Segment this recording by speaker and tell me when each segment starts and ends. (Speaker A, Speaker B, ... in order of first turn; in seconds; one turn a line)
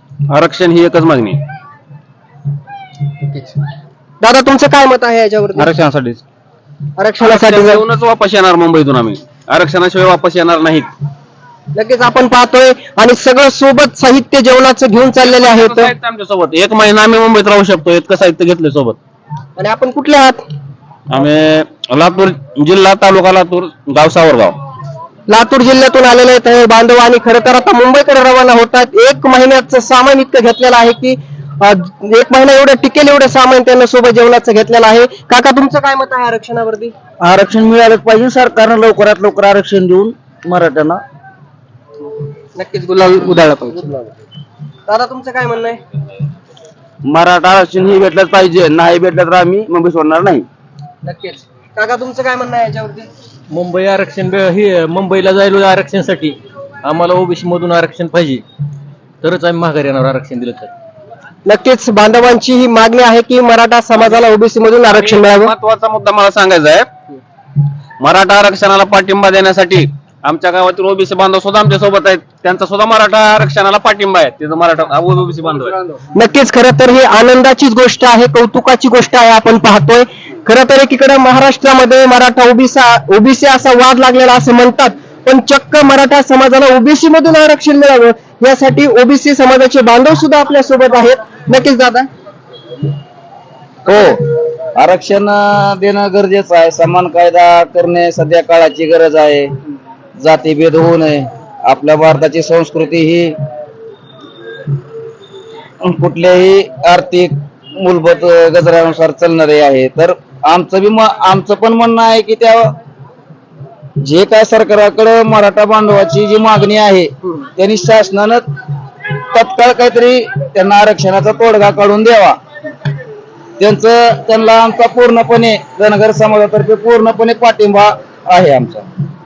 Speaker A: 0.3-1.4
Speaker B: 3.3-3.6
Speaker B: 4.2-5.7
Speaker C: 5.6-6.2
Speaker B: 7.0-7.8
Speaker A: 7.2-10.9
Speaker B: 11.7-15.9
Speaker A: 15.3-19.0
Speaker B: 19.6-20.4
Speaker A: 21.1-24.6
Speaker B: 25.3-36.9
Speaker C: 37.2-41.0
Speaker B: 42.6-44.1
Speaker B: 44.9-45.8
Speaker C: 47.1-50.5
Speaker B: 51.0-53.1
Speaker D: 53.5-58.4
Speaker D: 59.2-60.7
Speaker B: 61.5-65.5
Speaker A: 64.9-66.9
Speaker A: 68.0-75.8
Speaker B: 76.2-92.1
Speaker C: 93.9-99.5
Speaker C: 100.2-103.4
Speaker C: 105.8-112.8
Speaker C: 114.0-118.5
Speaker C: 119.3-122.4
Speaker C: 123.6-128.9